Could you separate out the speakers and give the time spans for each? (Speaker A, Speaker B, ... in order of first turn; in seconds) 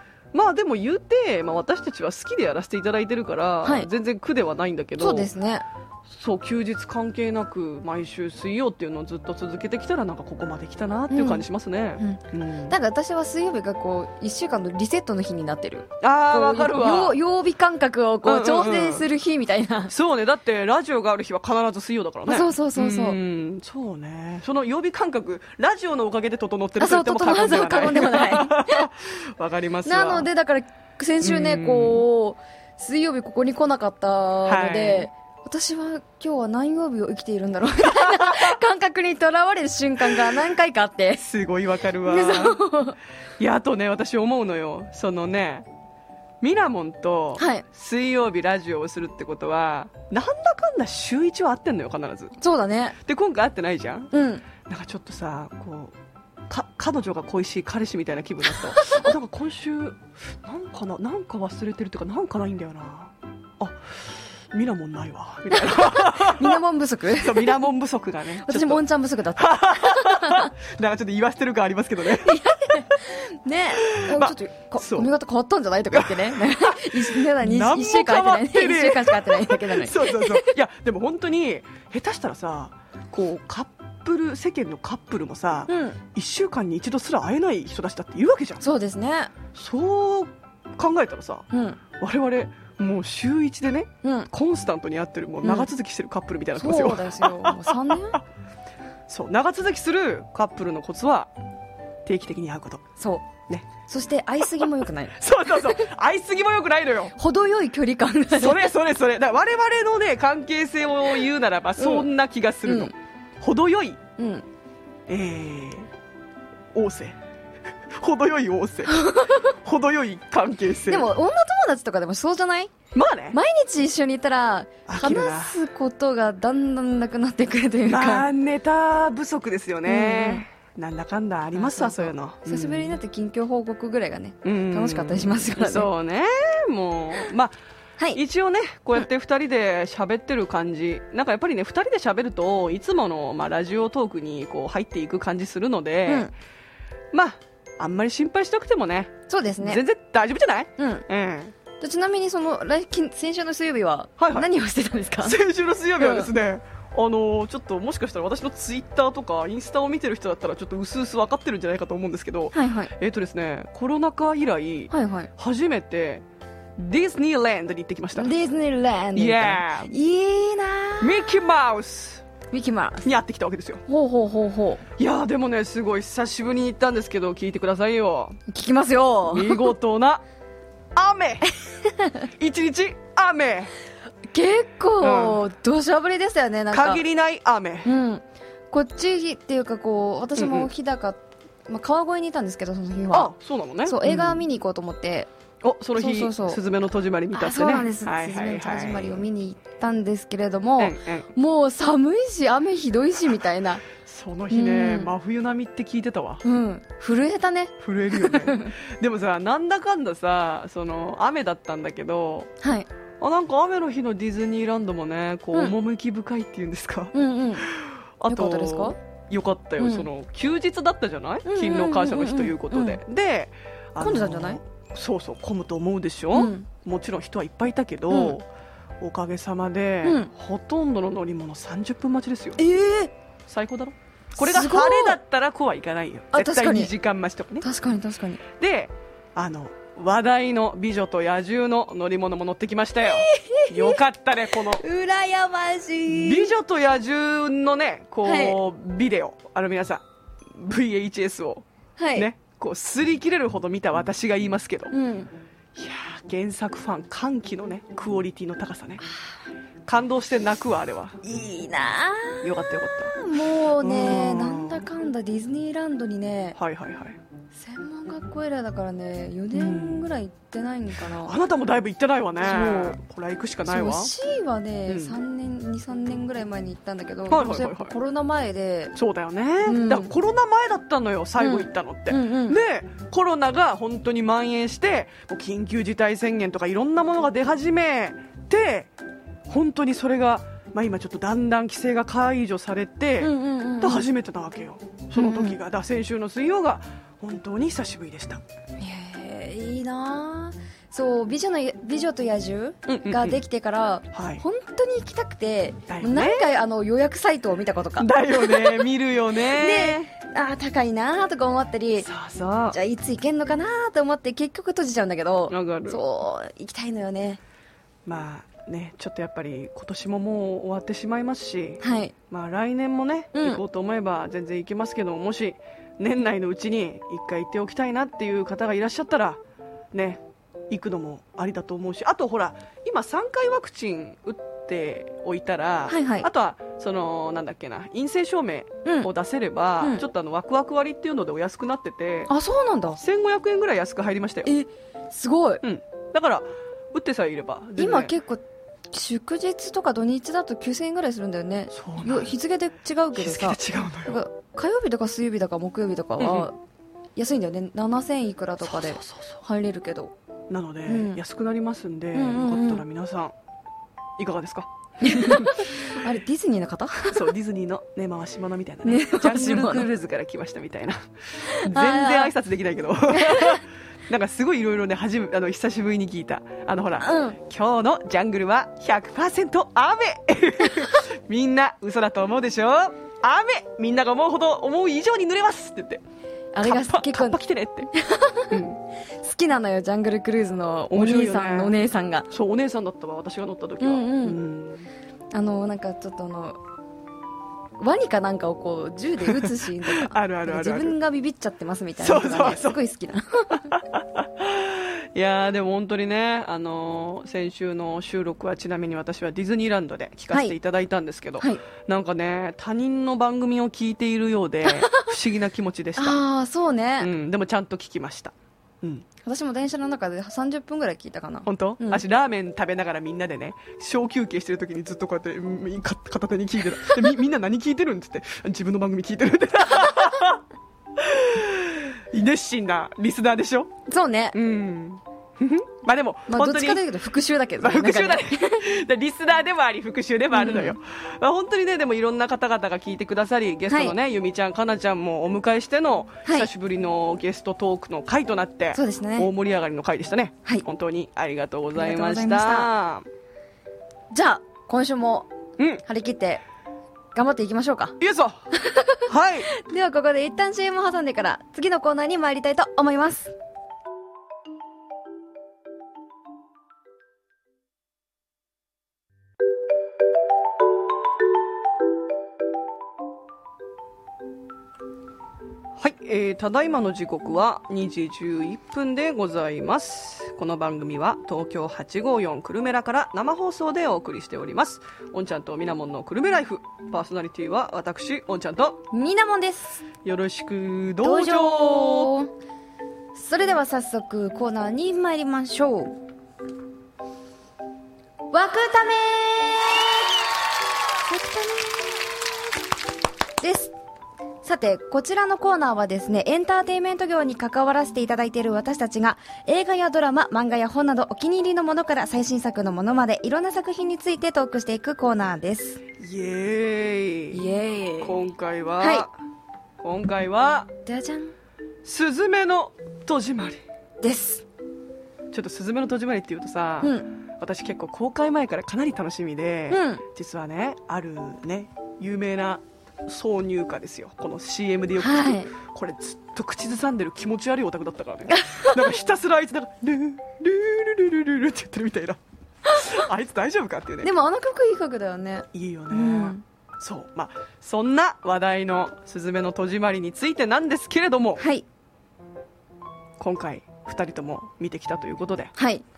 Speaker A: 0.3-5.3, 6.1-12.7, 16.0-17.2, 18.2-19.1, 19.9-30.3, 31.2-32.0, 34.5-35.1, 37.8-38.6, 40.0-40.3, 41.1-42.6, 43.4-45.7, 46.4-52.3, 53.0-54.1, 54.6-55.9, 56.5-66.6, 67.2-68.8, 69.4-72.9, 73.8-75.1, 75.9-88.6, 89.5-98.2, 99.1-101.3, 102.0-102.8, 104.4-107.1, 108.3-114.0, 115.1-115.9, 116.7-117.2, 117.9-121.1, 122.9-123.4, 124.9-125.6, 127.8-132.9, 134.4-137.5, 138.1-146.3, 147.1-151.5, 154.2-154.5, 155.2-166.2, 166.8-168.3, 169.1-169.9, 171.0-172.2, 173.0-173.8, 175.0-178.4, 179.3-180.2, 180.9-181.5, 182.4-183.7, 185.0-185.4, 186.7-187.9, 190.3-190.7, 193.1-194.4, 195.6-199.2, 200.8-201.3, 203.9-206.4, 207.8-212.5, 213.2-228.4, 229.0-232.6, 233.5-237.7, 238.6-244.8, 246.1-251.6, 252.2-254.9, 255.7-259.0, 259.9-261.2, 262.4-263.2, 263.8-264.9, 266.6-267.2, 269.5-270.1, 271.0-274.1, 274.9-275.1, 277.3-277.9, 278.9-288.9, 289.5-298.4, 302.9-303.4, 304.1-304.4, 305.9-306.5, 308.0-310.1, 312.0-312.8, 315.5-316.0, 318.1-329.4, 329.9-342.3, 343.0-344.5, 345.6-348.1, 351.7-352.3, 353.1-354.2, 356.2-356.5, 358.6-359.4, 360.5-363.3, 364.2-365.8, 367.1-386.0, 386.6-387.9, 388.5-388.8, 390.9-391.7, 392.3-394.9, 399.2-400.9, 402.0-402.8, 403.7-416.2, 417.0-419.1, 421.4-430.4, 430.9-433.7, 434.3-436.8, 437.6-453.1, 458.0-458.4, 459.1-459.5, 475.8-488.8, 490.0-492.1, 516.0-517.5, 518.0-519.1, 519.8-520.7, 521.8-523.6, 525.3-544.1, 545.5-551.4, 553.2-555.5
Speaker B: 5.0-5.6, 11.1-11.4, 12.0-19.9, 22.3-23.2, 26.8-28.9, 29.8-41.2, 42.0-43.0, 47.4-47.6, 52.4-53.0, 54.1-54.4, 58.8-59.1, 65.5-67.6, 68.4-70.5, 72.2-80.5, 85.7-86.0, 88.6-89.3, 91.5-91.8, 94.0-94.3, 95.4-95.7, 96.5-98.2, 103.0-105.9, 107.2-108.7, 111.8-112.1, 112.7-112.9, 114.2-114.5, 118.8-119.5, 120.9-122.7, 123.3-128.3, 129.9-130.4, 131.5-135.9, 146.1-146.3, 149.3-149.8, 150.8-151.0, 151.8-155.4, 156.0-156.3, 162.5-162.9, 164.9-165.3, 168.2-171.3, 172.5-173.1, 173.9-174.8, 178.5-179.7, 181.8-182.3, 184.3-187.0, 187.8-193.3, 193.8-195.3, 196.0-196.6, 197.3-203.8, 204.5-205.1, 206.4-208.7, 212.6-212.9, 217.1-217.7, 218.3-218.9, 219.8-220.1, 221.4-223.0, 224.0-224.6, 226.3-226.7, 228.1-228.3, 230.0-230.3, 232.6-233.1, 234.4-235.2, 236.3-236.9, 237.6-238.4, 243.0-244.0, 244.7-246.5, 248.2-248.6, 252.0-252.3, 254.9-255.3, 261.2-262.4, 263.2-266.6, 267.5-271.4, 272.4-273.0, 273.6-278.9, 279.6-280.1, 281.4-282.6, 293.2-294.1, 295.1-295.6, 298.8-308.9, 309.4-312.1, 312.7-317.4, 321.8-322.1, 323.3-323.6, 335.9-336.3, 338.8-339.1, 342.3-343.0, 344.4-345.6, 347.8-356.6, 357.1-360.1, 360.9-361.2, 362.1-362.8, 365.0-367.2, 368.8-369.9, 371.4-372.3, 373.1-373.6, 377.0-377.4, 386.5-387.4, 387.9-388.6, 389.2-392.3, 393.8-394.4, 395.3-396.6, 397.8-403.7, 414.6-415.1, 416.0-417.1, 419.2-422.0, 433.9-434.4, 436.3-438.6, 440.3-440.8, 443.7-443.9, 446.2-446.5, 448.7-449.3, 451.7-452.7, 454.1-455.3, 455.8-456.4, 457.1-458.0, 458.5-463.3, 488.9-489.8, 491.0-492.3, 493.1-495.9, 498.3-499.9, 501.1-501.9, 503.4-503.7, 504.4-515.8, 517.3-518.2, 518.8-519.0, 520.9-521.3, 524.0-524.4, 526.8-527.1, 529.7-530.0, 535.0-535.5, 538.3-538.8, 544.0-546.4, 551.4-551.6, 555.5-555.8